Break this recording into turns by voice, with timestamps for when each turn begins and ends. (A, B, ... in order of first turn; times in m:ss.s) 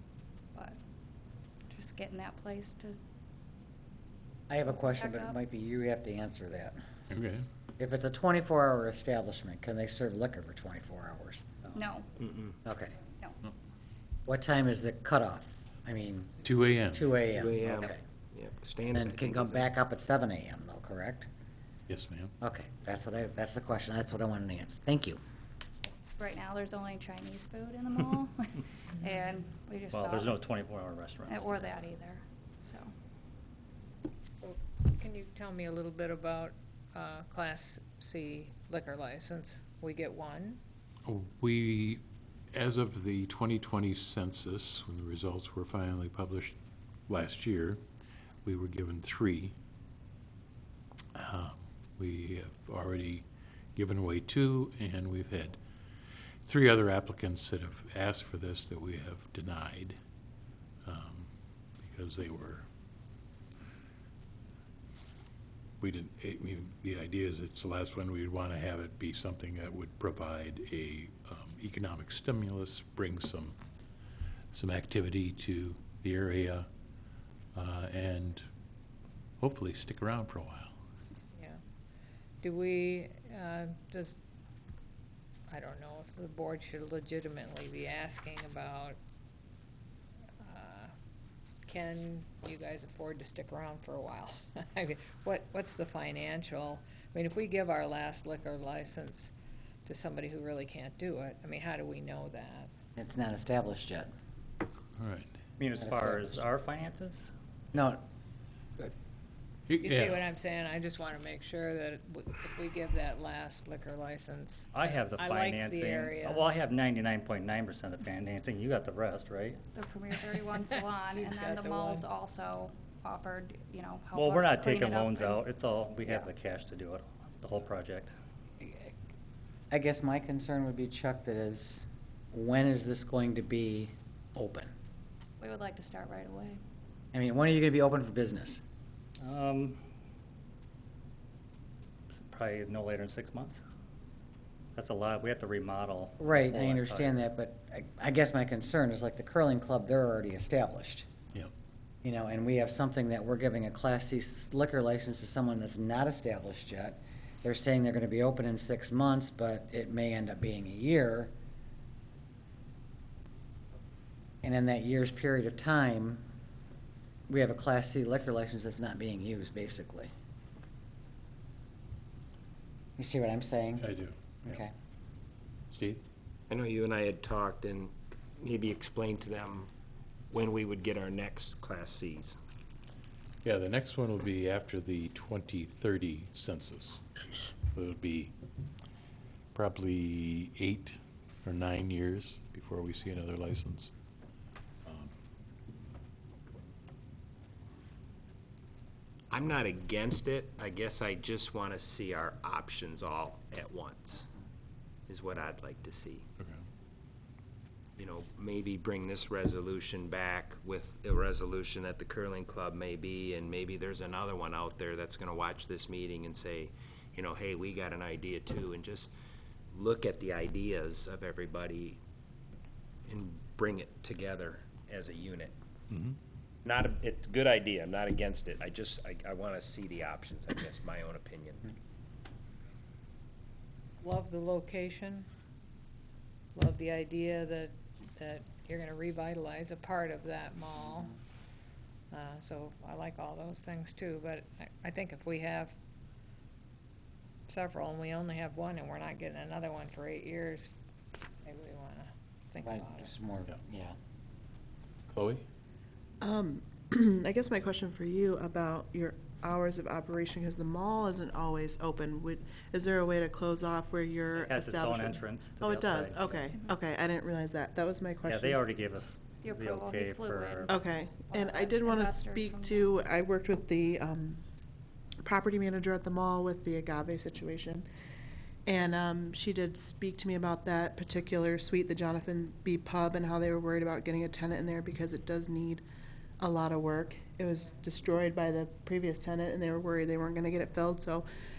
0:01.7-0:03.0 A
0:04.5-0:06.8 B
0:04.7-0:05.4 A
0:07.1-0:07.4 C
0:07.8-0:11.4 B
0:11.8-0:12.1 A
0:12.2-0:12.5 D
0:12.6-0:12.9 B
0:14.3-0:16.3 B
0:16.4-0:17.2 C
0:16.9-0:18.0 B
0:17.4-0:19.7 D
0:18.9-0:21.3 B
0:21.9-0:22.3 C
0:22.4-0:25.2 B
0:26.2-0:30.3 A
0:29.9-0:31.7 E
0:31.3-0:32.9 A
0:34.4-0:40.6 F
0:41.0-0:42.0 C
0:42.5-0:46.6 C
0:47.1-0:47.8 C
0:48.4-0:49.5 C
0:51.2-0:53.2 C
0:53.8-0:55.6 C
0:56.5-1:00.0 C
1:00.8-1:02.7 C
1:05.8-1:13.6 C
1:14.5-1:16.7 C
1:17.6-1:18.5 C
1:19.4-1:20.8 C
1:22.4-1:24.2 F
1:25.5-1:29.0 F
1:30.4-1:30.9 F
1:31.7-1:39.3 F
1:39.9-1:42.7 F
1:43.0-1:44.1 B
1:45.0-1:45.4 C
1:45.6-1:47.3 E
1:45.8-1:46.4 B
1:47.7-1:48.0 B
1:49.7-1:50.2 C
1:49.8-1:56.5 F
1:54.7-1:59.6 E
1:59.8-2:05.4 A
2:00.7-2:02.1 F
2:04.1-2:08.2 E
2:08.6-2:08.9 B
2:09.7-2:14.7 B
2:15.4-2:16.6 A
2:17.1-2:18.6 B
2:19.2-2:19.8 E
2:22.1-2:23.6 E
2:24.8-2:27.2 E
2:26.2-2:31.1 B
2:32.0-2:41.3 B
2:44.4-2:46.2 B
2:47.3-2:50.1 B
2:53.0-2:53.9 B
2:53.8-2:54.6 C
2:54.4-2:54.7 B
2:55.7-2:56.0 C
2:56.5-2:59.7 D
3:00.3-3:02.4 D
3:03.4-3:07.1 C
3:07.6-3:08.3 C
3:09.5-3:13.9 C
3:14.8-3:15.1 C
3:19.3-3:24.3 D
3:25.1-3:26.2 D
3:28.0-3:39.1 D
3:39.7-3:42.0 D
3:43.1-3:45.6 D
3:45.9-3:46.2 C
3:46.6-3:51.7 D
3:54.0-3:55.3 F
3:56.6-4:01.1 F
4:02.1-4:05.8 F
4:07.5-4:10.7 F
4:11.4-4:13.1 F
4:12.6-4:14.0 B
4:15.1-4:15.5 C
4:16.2-4:28.6 G
4:24.3-4:26.5 E
4:28.2-4:30.8 E
4:29.4-4:33.0 A
4:30.7-4:34.4 G
4:35.2-4:37.9 G
4:38.7-4:45.8 G
4:46.4-4:51.3 G